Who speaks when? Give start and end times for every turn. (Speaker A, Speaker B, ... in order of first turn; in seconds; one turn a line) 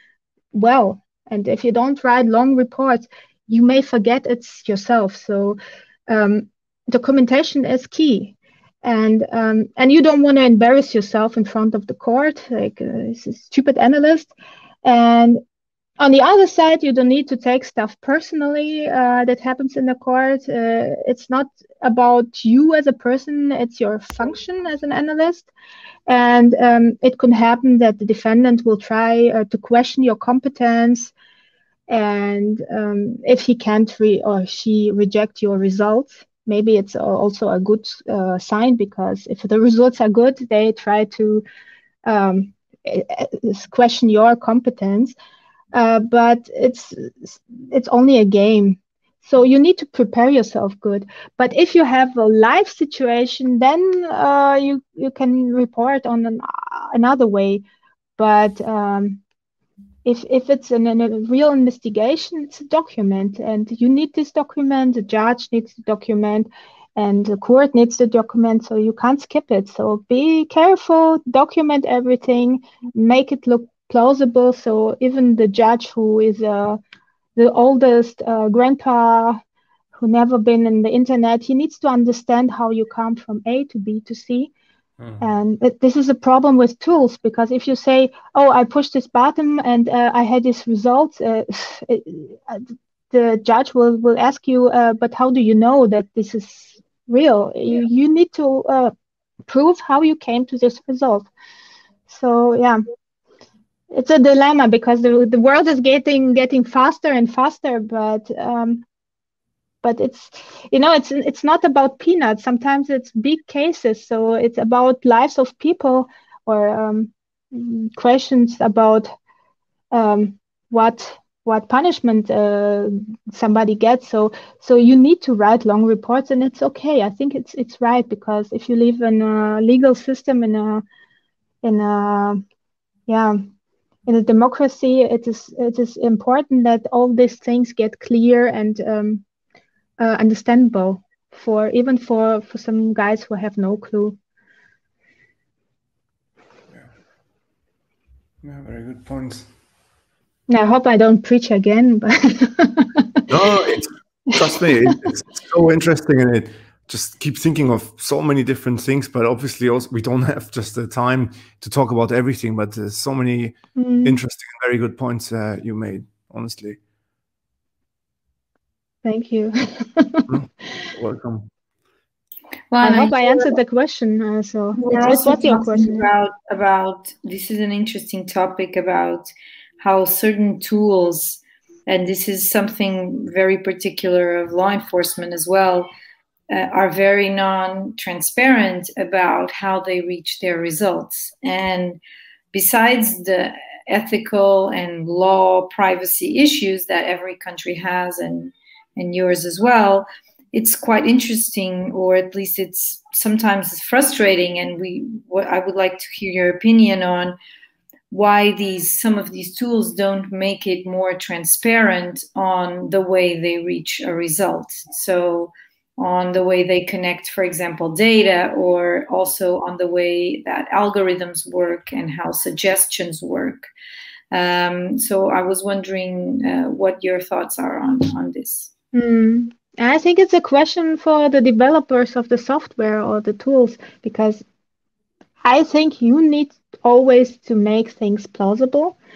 Speaker A: 0.5-14.3
Speaker A: 14.8-15.4
Speaker A: 16.0-25.5
Speaker A: 26.1-31.1
Speaker A: 31.9-41.4
Speaker A: 42.0-45.1
Speaker A: 45.7-57.6
Speaker A: 58.2-59.2
Speaker A: 60.0-76.8
Speaker A: 77.3-79.4
Speaker A: 80.0-84.5
Speaker A: 85.2-98.9
Speaker A: 99.5-101.3
Speaker A: 102.1-102.8
Speaker A: 103.9-108.8
Speaker A: 109.8-119.1
Speaker A: 119.9-130.8
Speaker A: 131.6-132.4
Speaker A: 133.1-133.4
Speaker A: 134.1-139.2
Speaker A: 140.0-144.2
Speaker B: 148.4-149.5
Speaker A: 150.5-153.2
Speaker B: 153.3-166.8
Speaker A: 163.8-164.2
Speaker A: 169.0-170.3
Speaker B: 170.3-171.5
Speaker C: 172.7-173.5
Speaker A: 172.8-176.1
Speaker C: 174.8-185.9
Speaker C: 186.5-192.0
Speaker C: 192.5-207.3
Speaker C: 208.1-223.7
Speaker C: 224.3-228.7
Speaker A: 228.9-234.4
Speaker A: 235.4-239.0